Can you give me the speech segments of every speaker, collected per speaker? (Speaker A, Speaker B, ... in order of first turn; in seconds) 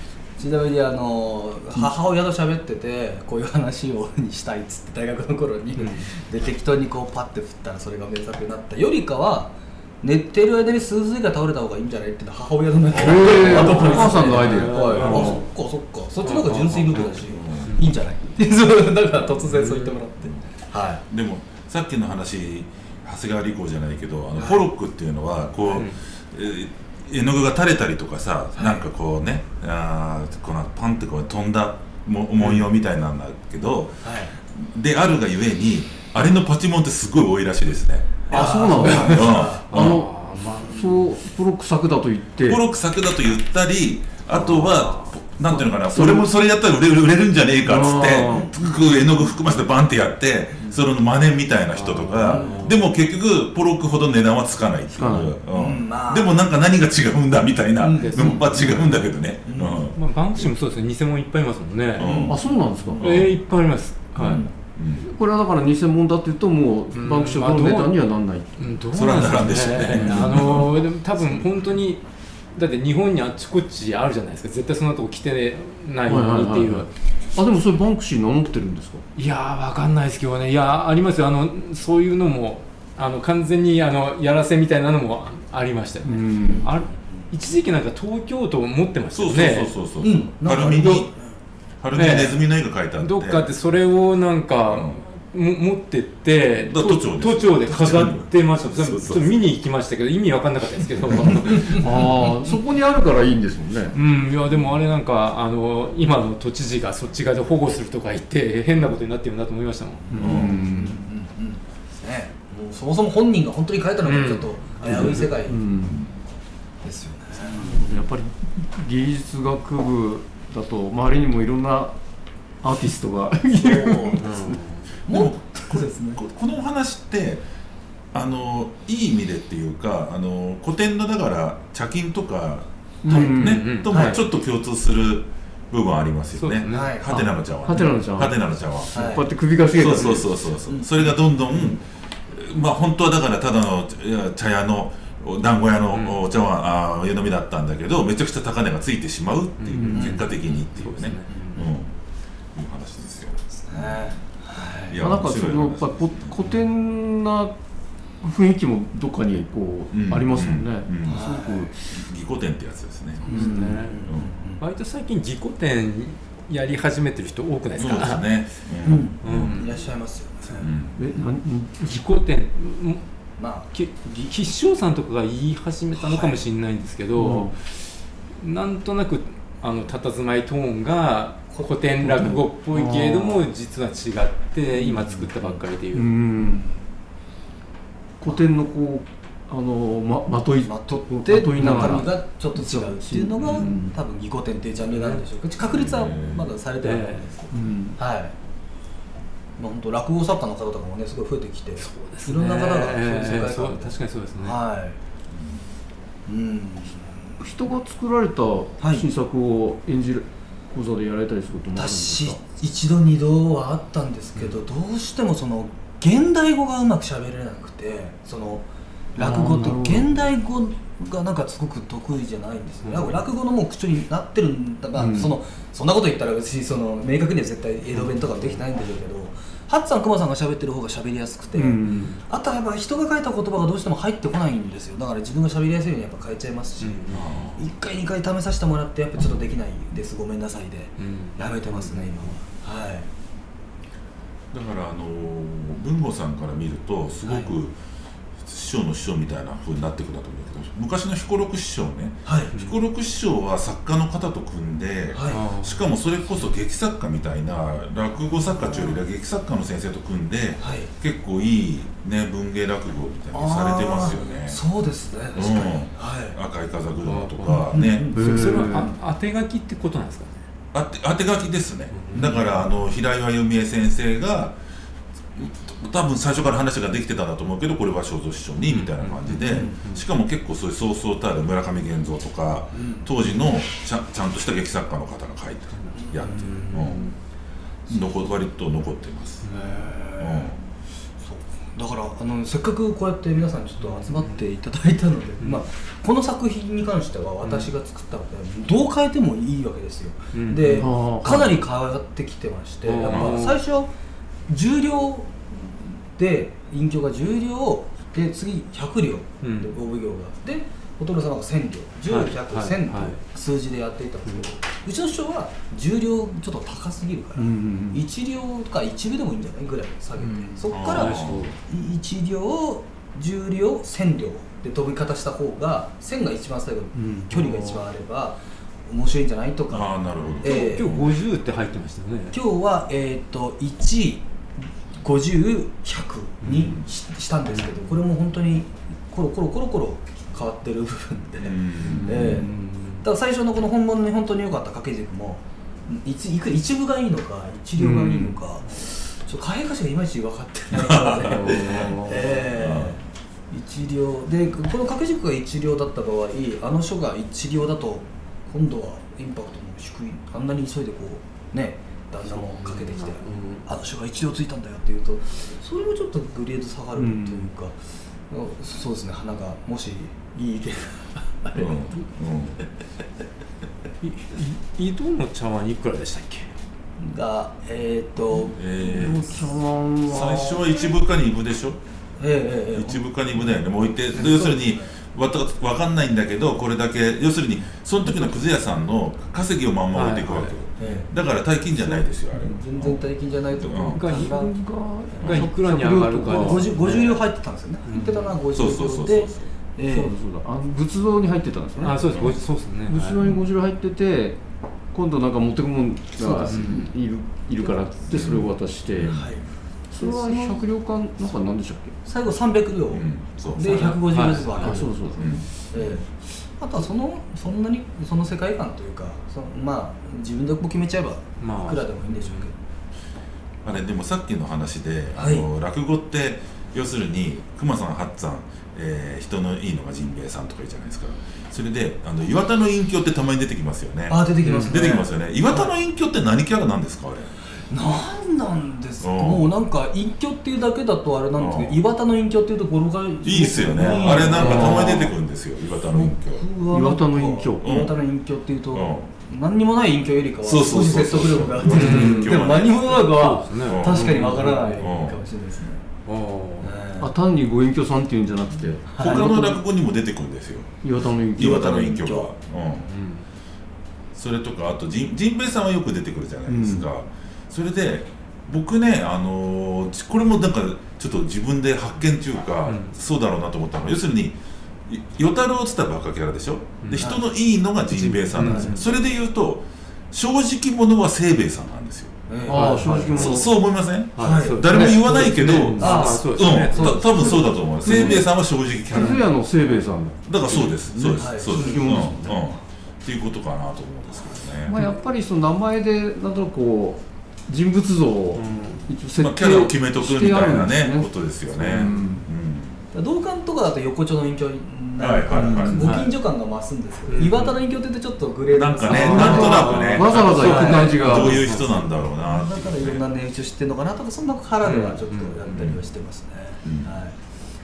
Speaker A: 0.4-21.0, 24.4-24.7, 28.5-28.9, 34.0-34.3, 38.3-39.7, 52.2-52.8, 55.5-56.4, 57.8-58.4, 59.4-59.9, 62.0-62.4, 86.4-87.3, 90.0-91.2, 110.3-115.7, 116.8-117.9, 125.1-126.2, 133.9-134.2, 136.7-137.2, 138.9-139.3, 140.6-141.1, 149.9-150.2, 153.5-155.0, 161.0-161.7, 163.2-164.6, 168.8-170.7, 173.4-173.7, 175.9-176.4, 190.6-198.3, 199.6-205.0, 206.3-207.4, 208.8-209.1, 211.7-243.1, 247.2-247.5, 252.2-252.5, 255.1-255.4, 260.6-260.9, 263.3-266.4, 279.5-279.8, 282.7-283.1, 285.9-287.1, 287.9-288.4, 289.5-290.6, 291.2-303.9, 304.5-330.9, 332.3-334.2, 335.0-342.5, 343.0-367.8, 368.3-372.0, 377.0-379.3, 382.2-383.0, 384.1-384.9, 390.8-391.1, 391.7-394.5, 396.3-400.1, 409.0-409.4, 412.0-415.1, 415.7-422.6, 425.1-425.4, 434.1-435.7, 437.6-445.1, 445.9-455.9, 456.6-457.1, 458.9-459.2, 461.4-462.3, 477.0-477.2, 482.3-483.0, 484.2-484.8, 485.7-487.6, 491.2-492.4, 502.9-517.1
Speaker B: 5.8-6.1, 13.4-15.4, 16.2-17.8, 19.4-20.0, 25.7-26.0, 32.4-32.7, 38.8-41.1, 51.7-52.8, 58.0-59.1, 59.9-62.2, 63.0-64.4, 66.9-68.0, 68.5-72.0, 72.5-76.9, 79.2-89.7, 90.7-91.0, 91.9-102.3, 103.9-110.4, 114.0-115.3, 123.6-124.8, 133.1-134.2, 136.3-136.9, 145.9-146.2, 149.6-151.7, 163.2-164.0, 164.6-168.4, 169.2-169.8, 171.8-173.0, 173.7-186.1, 191.6-192.1, 193.5-193.8, 194.9-195.2, 196.8-197.3, 201.8-204.6, 222.8-223.2, 227.9-228.6, 231.8-232.2, 236.8-237.6, 241.0-242.4, 255.2-255.9, 267.0-270.3, 271.9-272.7, 278.6-280.1, 285.8-287.1, 289.4-289.8, 293.8-294.4, 297.4-297.7, 300.3-301.5, 302.8-303.6, 309.4-309.8, 312.1-313.2, 320.2-321.6, 330.4-332.4, 336.4-336.8, 337.4-337.8, 341.9-343.0, 351.4-352.0, 362.3-363.6, 374.0-376.5, 389.9-390.9, 393.9-394.3, 395.2-397.3, 397.8-398.4, 401.8-403.4, 406.4-406.9, 410.0-410.6, 413.6-415.0, 421.4-422.5, 434.4-434.8, 444.0-445.0, 451.7-452.4, 453.0-454.9, 456.1-456.7, 462.8-463.2, 472.6-472.9, 476.8-477.2, 477.8-478.9, 482.5-483.5, 484.1-488.3, 488.9-489.2, 490.5-490.7, 498.3-498.9, 501.7-502.0, 505.7-506.1, 507.1-507.6, 508.9-511.7, 514.6-515.8
Speaker C: 12.9-15.4, 38.3-42.6, 44.3-46.3, 47.6-48.6, 54.9-55.3, 62.3-63.0, 65.0-68.6, 69.9-70.3, 76.0-79.0, 86.0-86.7, 101.7-104.0, 110.1-111.0, 114.8-116.0, 117.6-122.0, 122.6-124.6, 133.0-133.7, 137.1-140.3, 155.0-157.5, 158.2-162.0, 163.2-163.8, 171.0-172.0, 177.1-177.5, 182.0-183.5, 184.7-185.3, 185.9-186.7, 188.2-193.9, 197.5-198.0, 207.4-212.4, 219.2-220.3, 225.0-225.3, 231.5-232.2, 267.7-268.9, 300.8-301.6, 317.3-318.0, 326.9-327.8, 341.8-342.4, 347.8-348.4, 351.6-352.4, 366.9-367.5, 378.8-380.9, 394.0-396.8, 399.9-404.4, 404.9-409.1, 409.9-411.9, 414.6-415.4, 443.9-445.1, 446.7-447.6, 451.7-452.1, 457.0-459.6, 460.8-461.7, 466.5-466.9, 478.3-478.8, 482.4-483.6, 484.7-485.8, 487.8-488.3, 488.9-492.4, 494.6-502.2, 505.3-506.1, 508.9-511.4
Speaker D: 12.9-14.3, 16.9-17.8, 21.1-38.2, 38.8-40.0, 42.5-60.5, 62.0-62.4, 63.0-63.4, 64.1-65.1, 68.9-70.8, 89.1-91.1, 91.8-93.5, 94.6-95.0, 96.5-99.5, 110.2-110.6, 125.1-127.4, 128.1-139.0, 139.7-151.9, 152.5-154.1, 154.9-156.6, 159.9-161.2, 161.9-163.5, 167.7-169.7, 170.5-171.1, 195.6-196.5, 205.3-205.7, 237.1-237.6, 244.5-247.8, 248.4-264.6, 265.3-268.1, 270.7-274.6, 275.3-287.0, 287.9-289.4, 290.2-290.6, 303.0-303.4, 320.7-321.6, 329.7-331.1, 341.4-342.5, 350.7-353.0, 371.5-372.6, 378.5-379.4, 380.0-381.8, 382.7-394.0, 395.2-395.5, 398.5-399.5, 401.9-402.4, 406.3-406.8, 408.1-409.4, 412.9-414.0, 415.1-415.5, 423.6-437.3, 439.0-439.5, 441.4-441.8, 443.2-446.4, 447.6-447.9, 448.7-449.1, 450.4-453.1, 453.6-454.2, 454.8-455.2, 459.0-460.7, 461.3-462.9, 464.1-482.1, 482.9-489.2, 490.2-494.8, 499.2-502.8, 505.0-506.0, 508.5-513.0, 515.5-515.8, 516.6-516.9